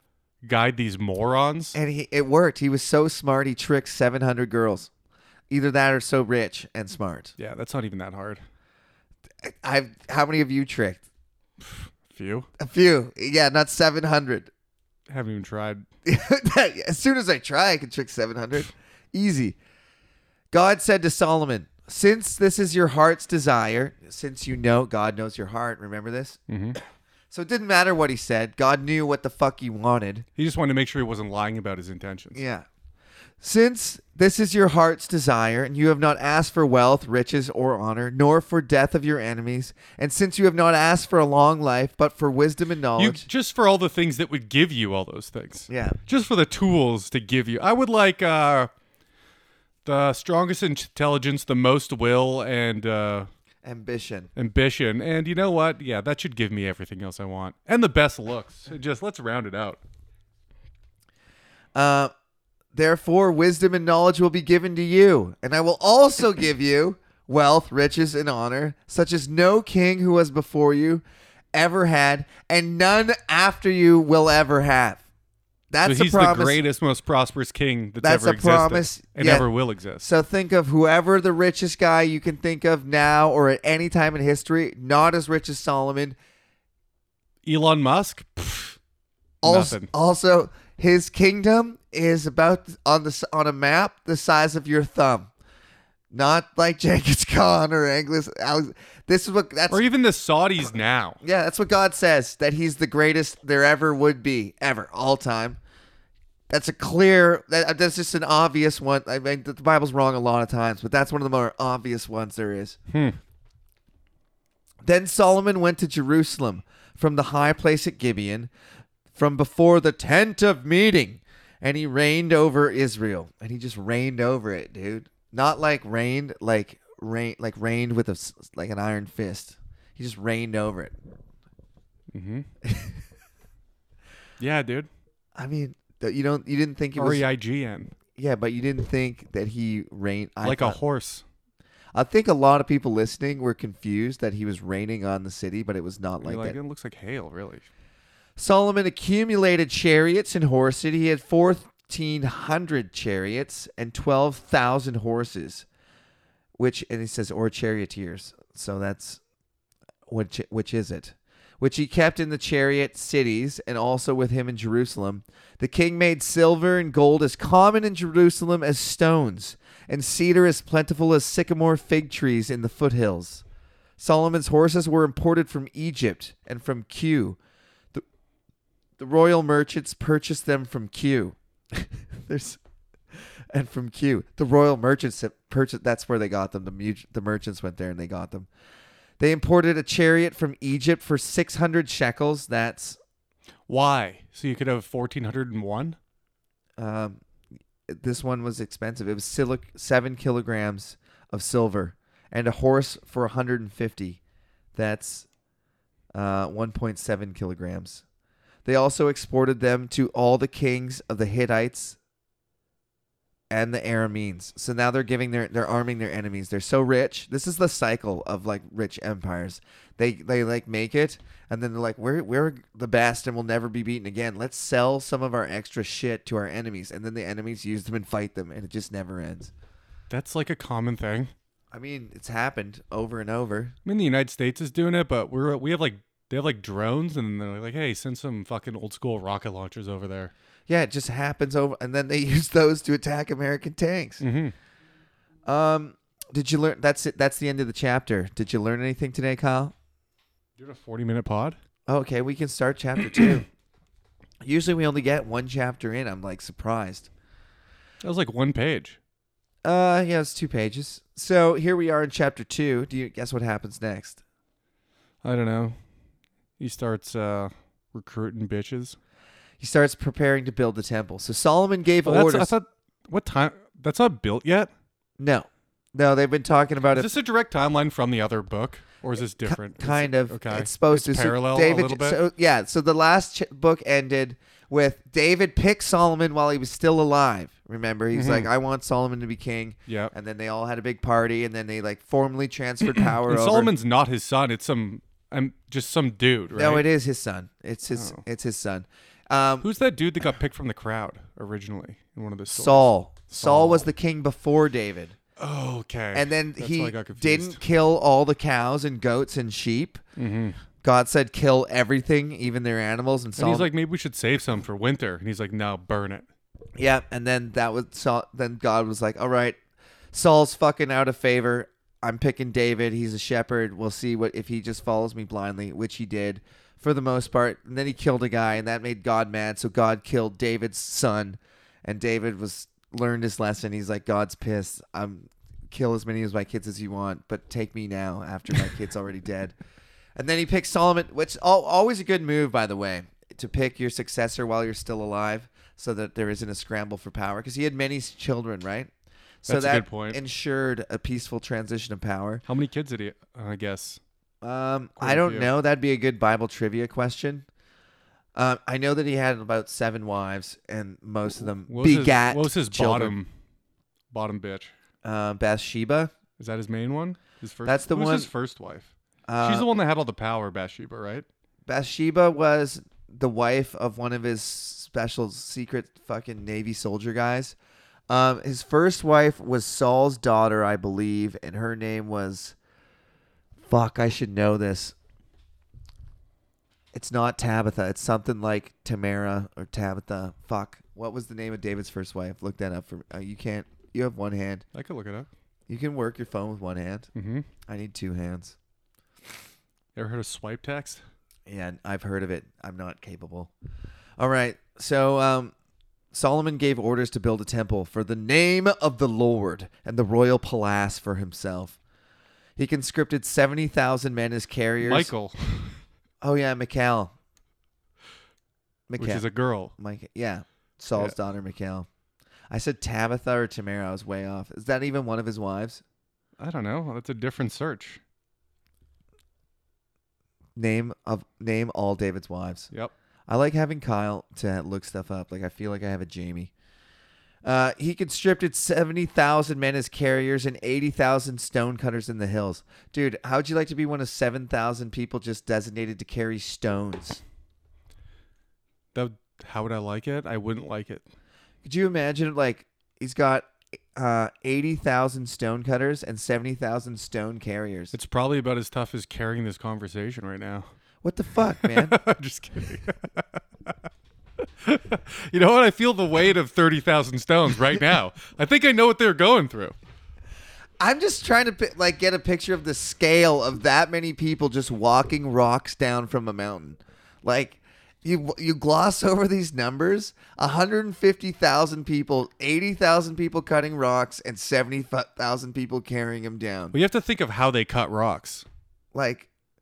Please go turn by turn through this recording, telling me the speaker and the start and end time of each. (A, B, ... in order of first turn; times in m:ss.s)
0:00.4-0:01.8 A
0:01.7-0:04.9 B
0:05.5-0:07.3 B
0:07.4-0:08.4 A
0:09.4-0:11.0 B
0:11.6-0:12.5 A
0:12.6-0:14.5 B
0:15.1-0:15.8 A
0:16.0-0:19.6 B
0:20.5-0:26.4 B
0:26.5-0:26.8 A
0:27.3-0:30.2 B
0:30.4-0:32.4 A
0:32.3-0:32.7 B
0:33.4-0:43.3 B
0:43.0-0:48.7 A
0:45.7-0:46.0 B
0:49.8-0:53.3 A
0:53.6-0:54.3 B
0:54.4-0:59.8 A
1:01.7-1:02.1 B
1:02.7-1:11.0 B
1:11.5-1:15.0 B
1:15.7-1:16.6 B
1:15.8-1:20.0 A
1:18.0-1:19.5 B
1:20.0-1:26.2 B
1:27.4-1:28.8 A
1:29.4-1:35.3 B
1:29.4-1:29.9 A
1:36.1-1:39.8 B
1:39.7-1:41.2 A
1:41.2-1:45.6 B
1:46.5-1:52.8 B
1:52.9-1:53.2 A
1:54.8-1:58.5 B
1:59.1-2:11.0 B
2:12.1-2:12.5 A
2:12.6-2:13.0 B
2:14.4-2:14.9 A
2:15.4-2:17.2 B
2:17.0-2:17.9 A
2:18.2-2:20.8 B
2:20.4-2:21.2 A
2:21.9-2:26.6 B
2:26.2-2:27.7 A
2:28.4-2:35.7 B
2:36.6-2:39.2 B
2:40.1-2:53.4 B
2:54.0-2:57.4 B
2:59.0-3:02.6 B
3:03.2-3:08.5 B
3:09.2-3:13.0 B
3:13.7-3:16.0 A
3:16.8-3:17.2 B
3:17.9-3:24.2 B
3:24.7-3:25.3 B
3:26.1-3:28.0 B
3:28.6-3:32.0 B
3:33.5-3:49.5 B
3:50.1-3:51.3 A
3:51.7-3:53.7 B
3:53.8-4:00.3 A
4:00.7-4:04.2 B
4:04.2-4:04.5 A
4:05.4-4:09.7 B
4:10.6-4:11.6 A
4:11.9-4:13.4 B
4:14.4-4:17.1 B
4:18.0-4:19.0 A
4:19.6-4:24.2 B
4:25.2-4:25.8 A
4:26.6-4:29.0 A
4:29.6-4:32.5 B
4:32.0-4:34.7 A
4:35.2-4:37.1 B
4:36.9-4:42.2 A
4:39.4-4:53.7 B
4:48.1-4:48.5 A
4:49.9-4:50.1 A
4:53.0-4:56.9 A
4:56.6-4:59.7 B
4:58.0-4:58.2 A
4:59.6-5:03.9 A
5:02.5-5:05.2 B
5:05.4-5:07.6 A
5:06.1-5:10.0 B
5:10.2-5:10.6 A
5:10.8-5:13.7 B
5:13.4-5:16.3 A
5:16.8-5:19.6 B
5:20.1-5:39.6 B
5:40.2-5:48.9 B
5:49.4-5:52.4 B
5:49.5-5:50.2 A
5:52.4-5:54.0 A
5:54.4-5:57.4 B
5:55.0-5:55.5 A
5:58.4-6:03.2 B
6:01.7-6:03.3 A
6:04.1-6:04.7 A
6:05.0-6:06.1 B
6:06.4-6:08.9 A
6:07.7-6:08.3 B
6:09.3-6:09.7 B
6:09.4-6:11.3 A
6:11.7-6:17.6 B
6:18.1-6:22.6 B
6:23.7-6:25.0 B
6:26.9-6:34.6 B
6:34.7-6:35.3 A
6:35.7-6:37.1 B
6:37.1-6:37.5 A
6:37.7-6:38.6 B
6:40.0-6:41.0 A
6:41.5-6:43.5 B
6:44.2-6:45.5 B
6:46.1-6:51.8 B
6:52.6-6:55.1 B
6:54.8-6:55.8 A
6:56.2-6:57.1 B
6:58.9-7:01.9 B
6:59.0-6:59.7 A
7:02.5-7:05.8 B
7:06.4-7:08.0 A
7:10.6-7:12.7 B
7:13.3-7:16.5 B
7:17.4-7:27.2 B
7:28.9-7:31.0 A
7:31.6-7:37.9 B
7:37.9-7:40.7 A
7:41.0-7:42.0 B
7:41.6-7:43.7 A
7:44.6-7:49.8 A
7:50.8-8:06.7 B
8:06.7-8:08.4 A
8:08.9-8:09.3 B